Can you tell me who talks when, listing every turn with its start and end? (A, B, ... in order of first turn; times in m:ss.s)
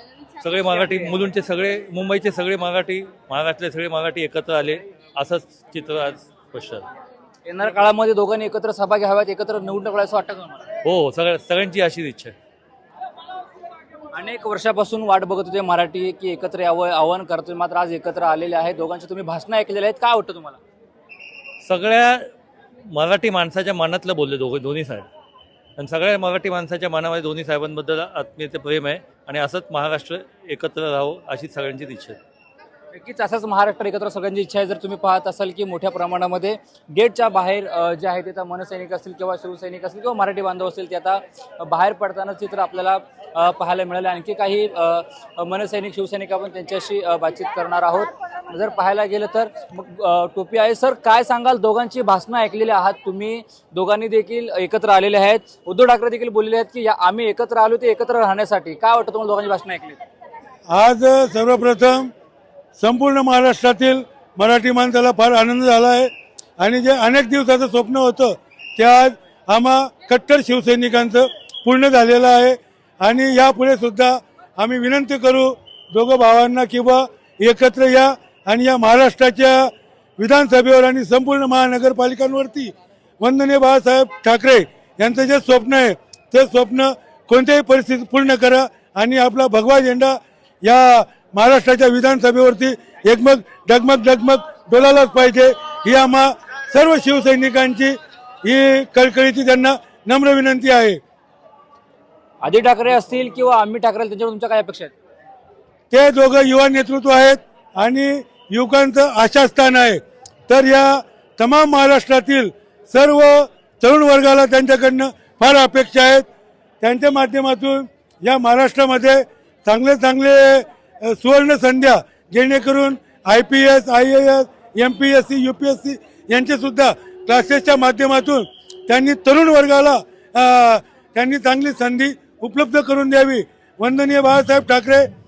0:00.4-0:06.8 A
0:07.4-0:10.6 B
0:10.8-0:12.3 A
0:14.1-0:20.6 B
0:21.6-0:22.3 A
0:22.9-0:25.0 A
0:25.8-0:32.2 A
0:32.9-1:00.0 B
1:00.7-1:02.1 C
1:02.8-1:41.0 C
1:42.4-1:44.9 B
1:45.9-1:56.2 C
1:56.8-2:15.1 C